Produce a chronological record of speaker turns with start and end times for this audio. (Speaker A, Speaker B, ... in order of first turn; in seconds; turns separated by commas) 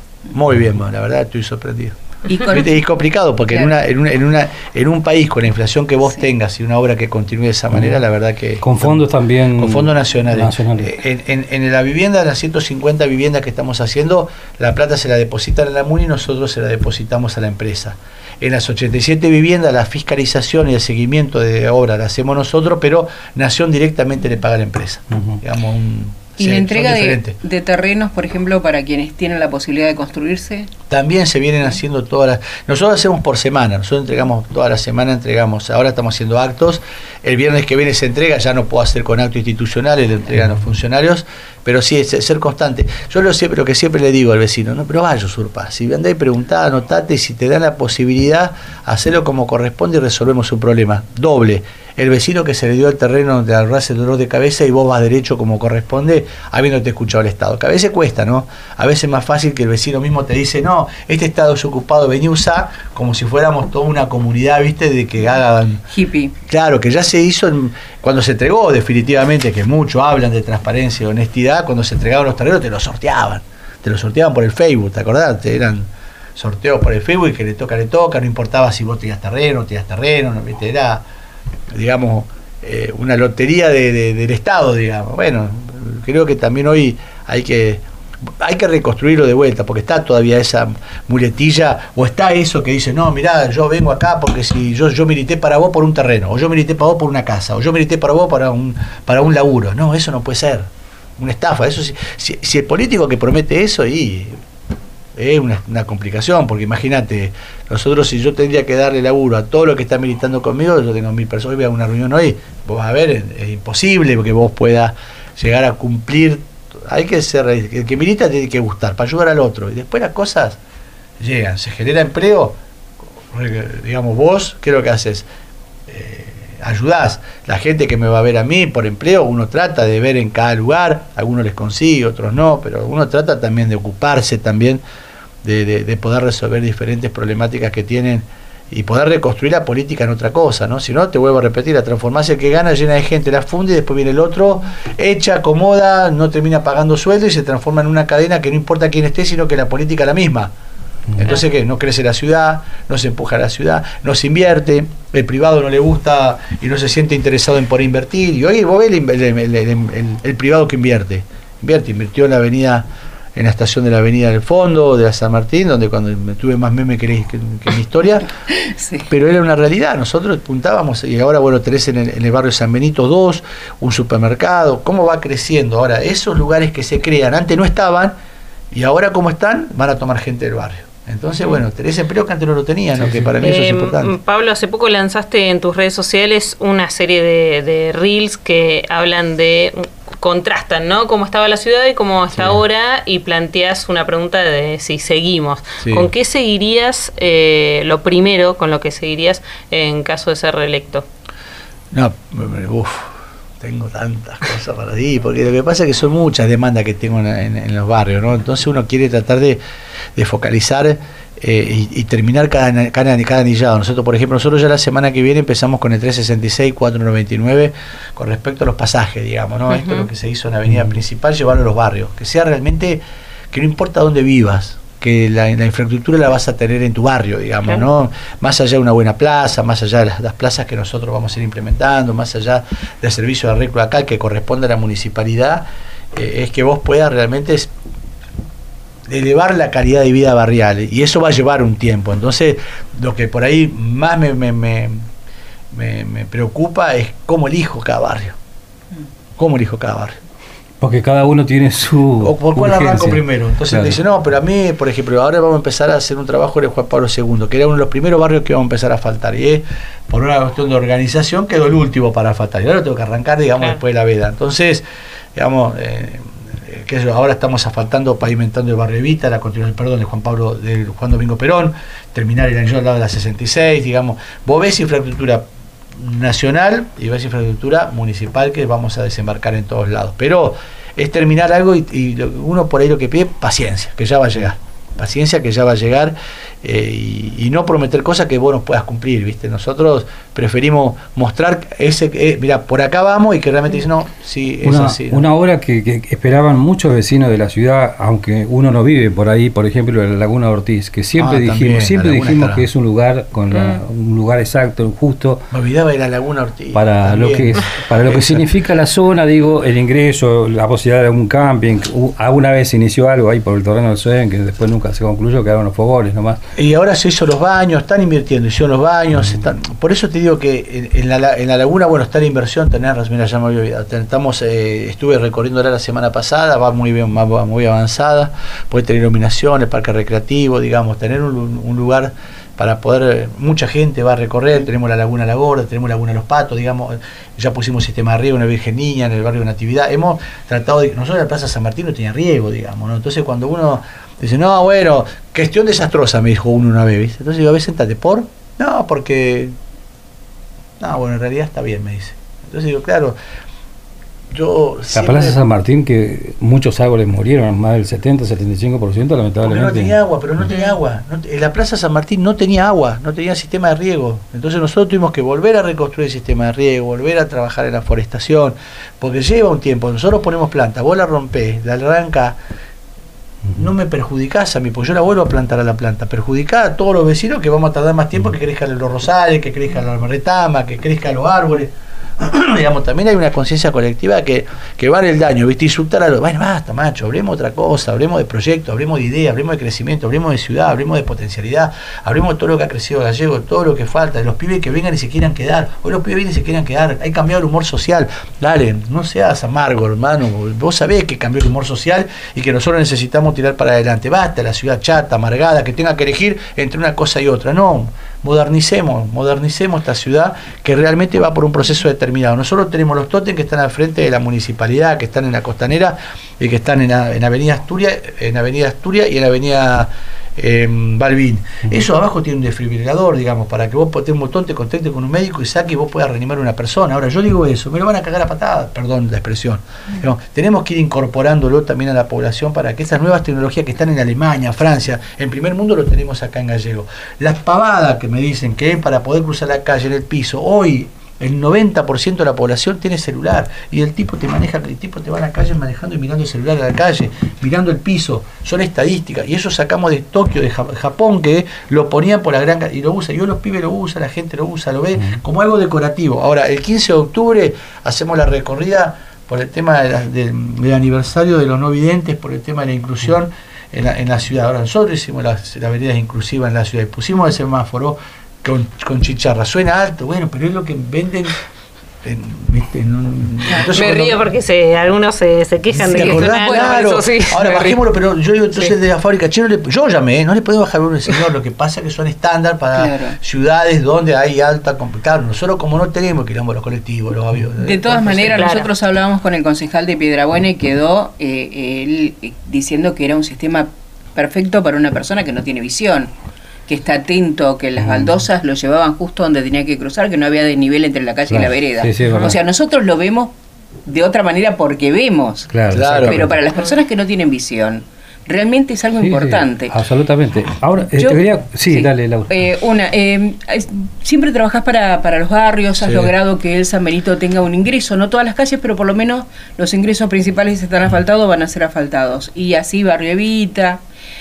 Speaker A: 0.3-27.4, Speaker B: 2.3-2.8, Speaker C: 8.6-10.9, Speaker C: 25.1-25.4, Speaker B: 26.4-30.7, Speaker A: 30.9-65.8, Speaker B: 65.9-66.3, Speaker A: 66.5-81.0, Speaker A: 81.7-87.8, Speaker A: 88.4-104.4, Speaker A: 105.2-120.6, Speaker A: 121.2-122.6, Speaker A: 123.3-125.3, Speaker A: 125.9-134.8, Speaker A: 135.4-150.5, Speaker A: 151.2-168.3, Speaker B: 168.6-169.1, Speaker A: 169.1-178.2, Speaker A: 178.7-184.2, Speaker C: 183.0-183.3, Speaker D: 183.4-201.1, Speaker A: 192.3-192.6, Speaker A: 195.8-196.1, Speaker A: 201.9-209.6, Speaker A: 210.2-237.7, Speaker D: 219.7-220.1, Speaker A: 239.1-245.1, Speaker A: 245.7-248.4, Speaker A: 249.4-250.2, Speaker C: 250.8-254.0, Speaker A: 252.2-264.8, Speaker A: 265.4-275.4, Speaker A: 276.0-295.3, Speaker C: 294.6-305.4, Speaker A: 301.2-302.7, Speaker D: 303.5-303.8, Speaker A: 305.5-308.5, Speaker C: 306.7-316.4, Speaker A: 316.6-349.6, Speaker A: 350.8-353.2, Speaker A: 354.3-355.4, Speaker C: 354.9-359.9, Speaker A: 359.4-372.4, Speaker A: 373.6-471.4, Speaker A: 472.0-474.2, Speaker D: 473.7-477.8, Speaker A: 475.7-488.5, Speaker B: 475.9-477.0, Speaker B: 482.8-483.2, Speaker B: 487.6-496.1, Speaker D: 488.4-488.7, Speaker B: 496.7-503.4, Speaker C: 497.8-498.2, Speaker C: 501.3-502.4, Speaker B: 503.9-509.7, Speaker C: 505.5-506.4, Speaker A: 505.7-506.2, Speaker C: 509.0-512.4, Speaker B: 511.0-523.8, Speaker A: 515.8-516.1